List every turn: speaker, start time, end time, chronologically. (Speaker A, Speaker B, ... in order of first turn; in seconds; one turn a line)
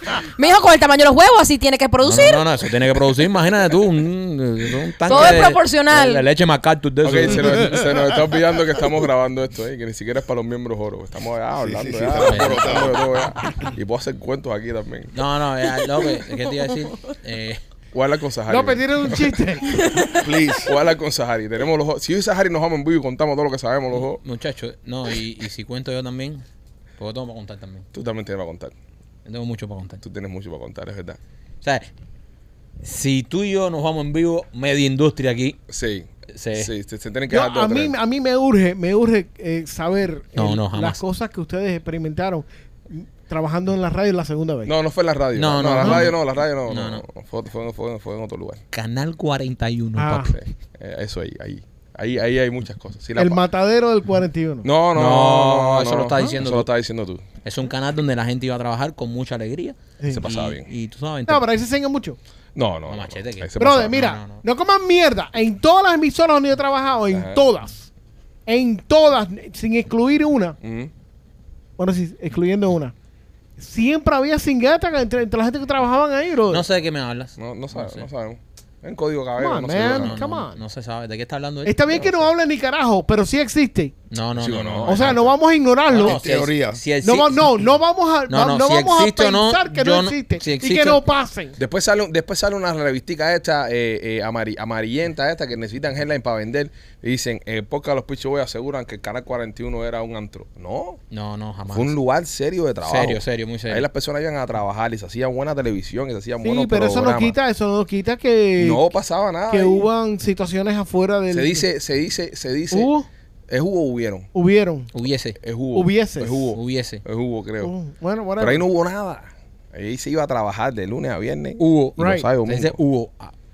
Speaker A: 0.1-2.5
Speaker B: 2.0-7.8
Speaker A: 5.1-6.2
Speaker C: 7.0-15.1
Speaker D: 11.6-13.0
Speaker B: 12.2-12.8
Speaker B: 15.1-17.6
Speaker C: 17.9-19.4
Speaker E: 18.5-19.8
Speaker A: 19.7-20.2
Speaker D: 20.2-20.7
Speaker C: 20.6-24.2
Speaker B: 23.9-26.4
Speaker B: 27.0-27.9
Speaker C: 27.9-28.7
Speaker B: 29.2-30.0
Speaker C: 30.0-31.2
Speaker B: 32.8-35.6
Speaker C: 35.7-37.9
Speaker B: 36.3-36.7
Speaker E: 37.3-44.7
Speaker B: 40.4-41.0
Speaker C: 44.7-48.6
Speaker B: 45.4-46.1
Speaker E: 45.8-46.1
Speaker B: 46.7-47.0
Speaker B: 48.7-50.4
Speaker E: 50.0-50.4
Speaker C: 50.3-53.4
Speaker E: 53.2-54.7
Speaker C: 54.6-57.2
Speaker B: 55.0-56.7
Speaker B: 57.4-61.5
Speaker C: 60.1-60.7
Speaker E: 61.3-62.2
Speaker C: 62.6-64.0
Speaker B: 62.9-64.4
Speaker E: 63.6-67.9
Speaker C: 67.1-67.4
Speaker E: 68.5-70.6
Speaker C: 70.6-70.9
Speaker E: 71.8-72.9
Speaker E: 73.6-76.6
Speaker B: 76.5-78.1
Speaker C: 77.4-80.2
Speaker E: 79.4-80.6
Speaker B: 79.8-82.3
Speaker E: 81.7-83.9
Speaker B: 84.1-85.2
Speaker C: 84.4-85.3
Speaker E: 84.8-86.2
Speaker B: 85.9-87.6
Speaker D: 85.9-86.8
Speaker E: 87.0-91.5
Speaker B: 88.3-91.0
Speaker C: 91.6-101.0
Speaker B: 101.1-101.9
Speaker C: 101.7-107.4
Speaker B: 102.8-103.9
Speaker E: 106.4-108.8
Speaker C: 108.6-109.9
Speaker E: 109.5-111.7
Speaker C: 111.3-112.9
Speaker E: 112.7-113.1
Speaker C: 113.5-114.3
Speaker E: 114.3-114.9
Speaker B: 115.0-115.4
Speaker C: 115.4-117.7
Speaker E: 115.8-116.5
Speaker B: 116.6-117.0
Speaker E: 117.6-118.6
Speaker C: 118.4-122.8
Speaker B: 121.6-123.3
Speaker E: 122.0-122.3